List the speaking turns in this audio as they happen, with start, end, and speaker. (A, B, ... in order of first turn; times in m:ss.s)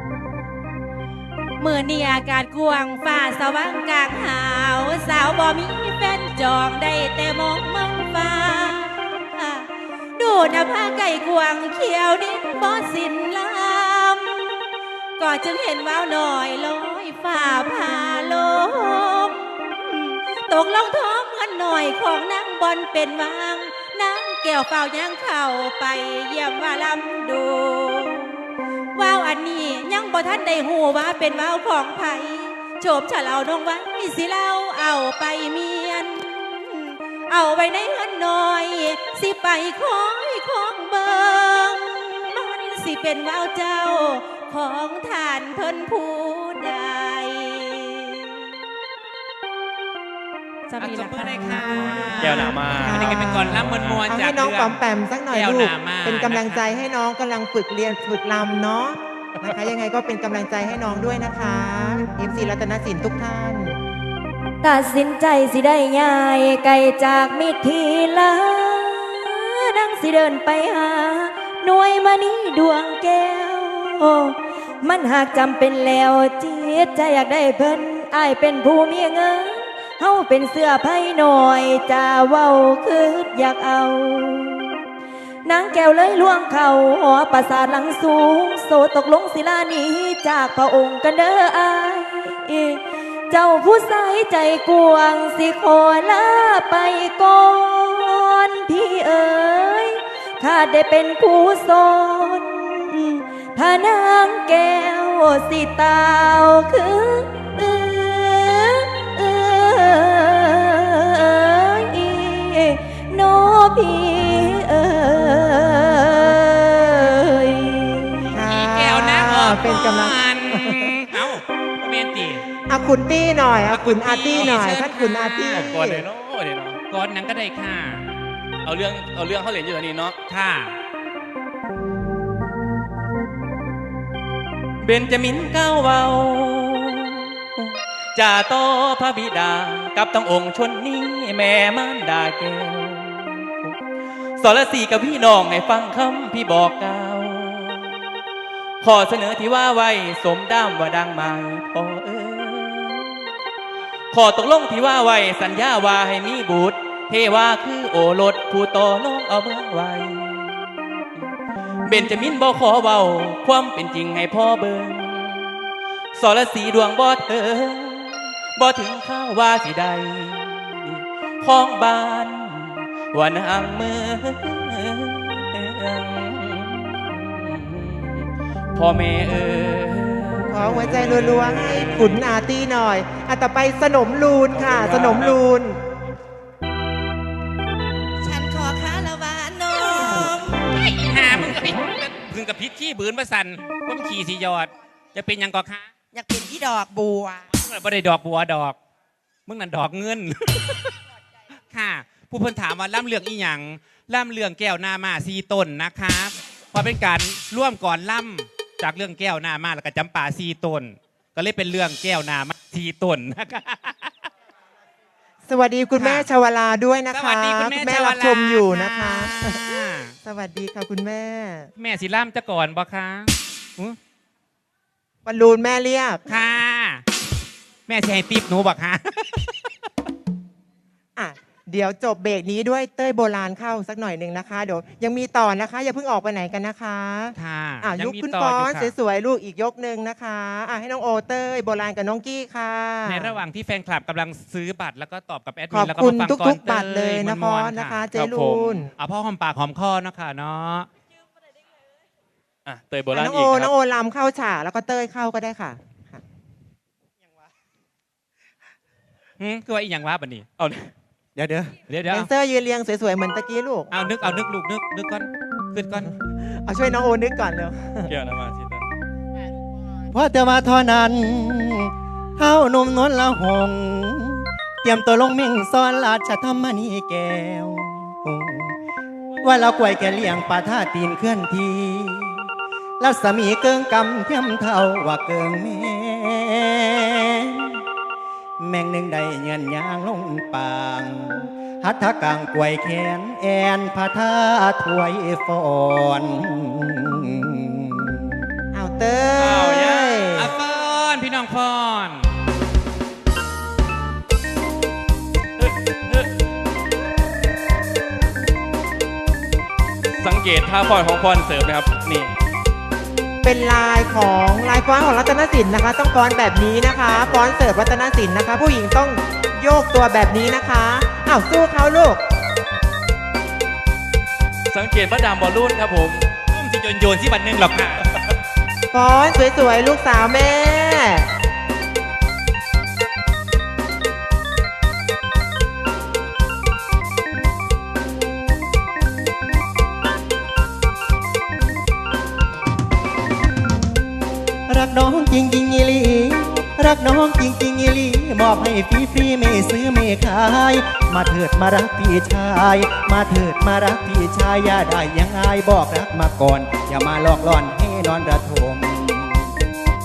0:01.6-0:14.5 A
0:15.2-0:28.4 A
0:28.9-0:48.4 A
0:50.7-0:52.5 B
0:50.8-0:56.6 C
0:51.6-0:54.0 D
0:52.7-1:03.8 E
1:04.6-1:24.6 B
1:25.4-1:58.3 B
1:58.3-2:02.4 C
1:58.3-2:01.0 E
2:02.7-2:06.0 E
2:03.7-2:05.7 C
2:04.4-2:04.8 D
2:05.6-2:06.8 D
2:06.9-2:08.0 C
2:08.6-2:10.2 D
2:10.3-2:10.8 C
2:14.8-2:23.8 D
2:24.4-2:27.9 D
2:28.8-2:33.2 D
2:34.1-2:41.3 D
2:41.8-2:45.5 D
2:46.2-3:02.3 D
3:00.5-3:05.8 E
3:04.5-3:05.4 D
3:08.2-3:10.7 F
3:10.7-3:15.9 C
3:16.1-3:17.4 F
3:17.5-3:18.8 C
3:19.4-3:20.8 C
3:21.7-3:34.3 C
3:35.5-3:41.7 E
3:36.0-3:36.3 C
3:37.1-3:40.1 C
3:41.8-3:44.0 C
3:45.2-3:46.2 E
3:46.3-3:47.0 C
3:47.9-3:49.4 C
3:51.2-4:03.4 E
3:57.3-3:58.9 C
4:03.0-4:08.0 C
4:05.7-4:08.9 E
4:08.1-4:08.9 D
4:09.0-4:10.9 C
4:12.6-4:13.7 D
4:13.1-4:16.2 E
4:19.4-4:20.5 C
4:20.6-4:20.9 D
4:21.3-4:21.8 G
4:21.9-4:22.3 C
4:22.1-4:23.9 E
4:23.9-4:26.1 C
4:26.6-4:28.1 E
4:28.1-4:28.9 D
4:30.1-4:38.7 G
4:39.4-4:42.5 G
4:43.0-4:47.8 G
4:48.6-4:58.4 G
4:58.7-5:00.5 E
4:59.4-5:00.3 D
5:00.4-5:02.3 C
5:05.6-5:06.3 D
5:10.2-5:12.3 D
5:13.4-5:22.2 E
5:24.7-5:26.3 D
5:26.5-5:28.0 C
5:28.9-5:31.3 E
5:44.7-5:59.5 G